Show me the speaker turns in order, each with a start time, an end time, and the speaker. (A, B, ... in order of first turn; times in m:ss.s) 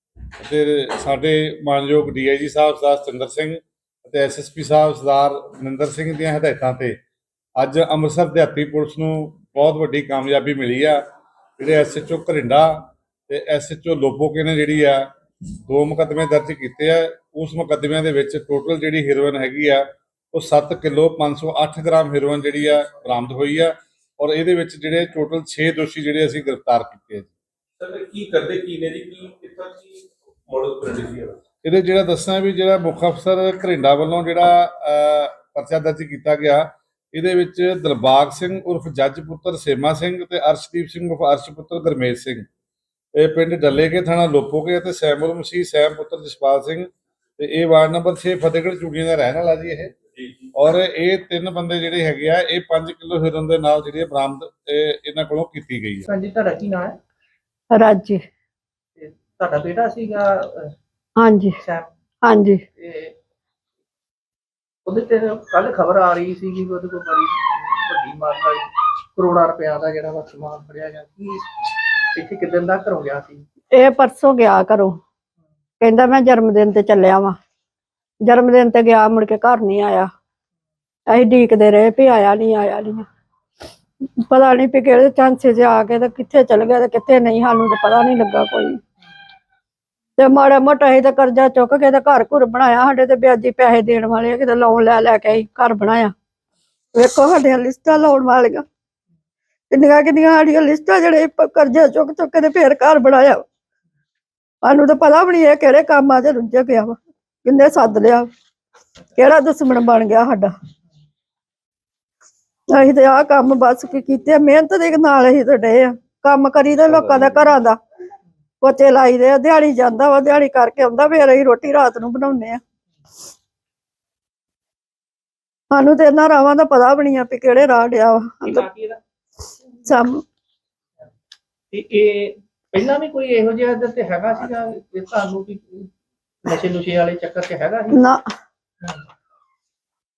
0:00.4-0:07.0 A
0:07.6-0:11.0 A
0:11.6-0:15.1 A
0:15.7-0:27.3 A
0:27.8-0:29.7 B
0:30.5-0:31.2 B
0:31.6-0:42.5 A
0:43.2-0:49.9 A
0:50.5-0:56.1 A
0:56.1-0:57.0 C
0:57.7-0:58.2 D
0:59.0-1:00.7 C
1:01.2-1:01.6 D
1:01.6-1:01.9 C
1:02.2-1:02.6 D
1:02.8-1:03.2 C
1:04.8-1:13.4 C
1:13.7-1:15.0 D
1:15.8-1:17.4 D
1:18.2-1:20.1 D
1:21.1-1:23.1 D
1:24.3-1:28.8 D
1:30.2-1:36.1 D
1:36.9-1:38.7 D
1:39.7-1:43.4 D
1:44.6-1:48.3 D
1:49.2-1:50.5 D
1:52.7-1:57.8 D
1:58.6-2:02.6 D
2:05.7-2:08.6 D
2:08.5-2:09.0 C
2:09.8-2:10.2 D
2:11.7-2:15.9 C
2:16.4-2:18.0 C
2:17.9-2:18.3 D